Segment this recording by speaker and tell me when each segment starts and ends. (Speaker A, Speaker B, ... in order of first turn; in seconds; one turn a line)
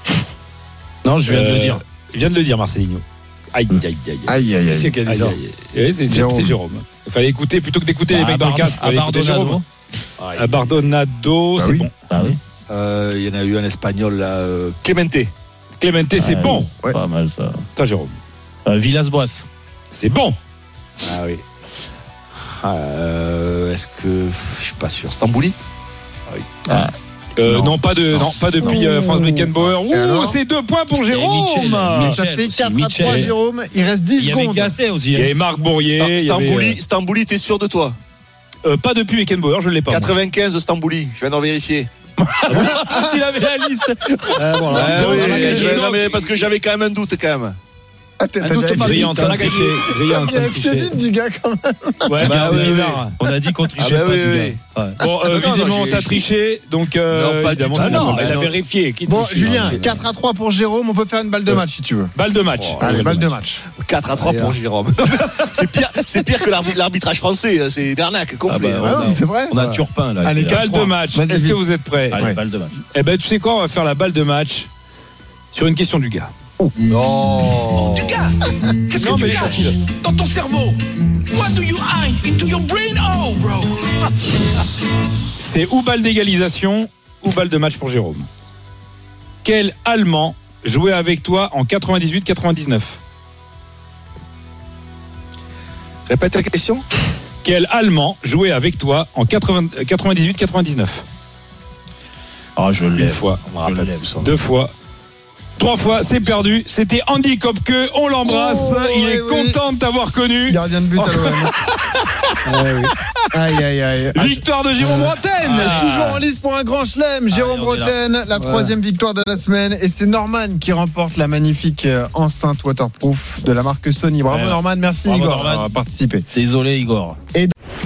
Speaker A: 1.0-1.8
Speaker B: 1.3-4.3
Speaker C: 4.3-5.0
Speaker D: 4.7-5.4
Speaker B: 5.0-9.6
Speaker C: 6.1-6.6
Speaker A: 8.1-9.6
Speaker B: 10.3-11.9
Speaker C: 11.6-11.9
Speaker A: 12.1-12.4
Speaker E: 12.7-15.3
Speaker B: 15.8-16.7
Speaker A: 16.2-17.6
Speaker B: 17.8-18.1
Speaker A: 18.7-19.5
Speaker B: 19.9-20.4
Speaker E: 21.0-21.4
Speaker E: 22.6-25.6
Speaker B: 27.4-32.2
Speaker C: 27.5-30.4
Speaker A: 31.1-33.4
Speaker C: 31.9-34.7
Speaker B: 33.0-33.3
Speaker A: 34.2-35.3
Speaker B: 35.1-36.8
Speaker E: 35.9-38.0
Speaker B: 38.6-40.2
Speaker E: 39.9-41.9
Speaker A: 42.2-44.2
Speaker C: 42.5-43.2
Speaker C: 44.2-45.3
Speaker D: 44.4-46.0
Speaker E: 44.6-47.6
Speaker B: 44.7-46.5
Speaker C: 48.2-52.8
Speaker D: 48.4-49.8
Speaker B: 48.7-50.9
Speaker B: 52.1-53.1
Speaker A: 52.2-55.0
Speaker E: 52.2-53.0
Speaker E: 53.8-54.6
Speaker B: 55.0-58.4
Speaker E: 55.2-56.2
Speaker E: 57.1-58.5
Speaker D: 57.8-59.8
Speaker C: 59.0-62.1
Speaker E: 59.5-60.0
Speaker B: 62.1-63.4
Speaker E: 62.5-63.0
Speaker C: 62.8-63.6
Speaker E: 63.8-69.3
Speaker D: 64.1-64.6
Speaker A: 68.5-70.7
Speaker C: 68.9-69.6
Speaker D: 69.5-69.8
Speaker C: 70.2-71.6
Speaker B: 70.5-72.3
Speaker A: 72.1-72.8
Speaker B: 72.9-74.7
Speaker B: 75.5-76.3
Speaker E: 76.9-78.2
Speaker F: 77.7-78.4
Speaker F: 78.9-80.7
Speaker B: 79.0-80.0
Speaker F: 81.3-83.7
Speaker B: 85.4-88.3
Speaker B: 89.4-93.0
Speaker E: 96.1-96.8
Speaker B: 97.4-101.0
Speaker A: 102.6-104.1
Speaker B: 103.0-103.5
Speaker E: 103.5-104.3
Speaker B: 104.2-104.7
Speaker B: 105.6-112.9
Speaker C: 108.2-109.6
Speaker C: 110.5-111.5
Speaker D: 112.5-113.0
Speaker C: 113.3-126.3
Speaker B: 114.2-116.2
Speaker A: 117.3-118.0
Speaker D: 118.3-118.7
Speaker A: 124.3-125.8
Speaker A: 126.3-127.2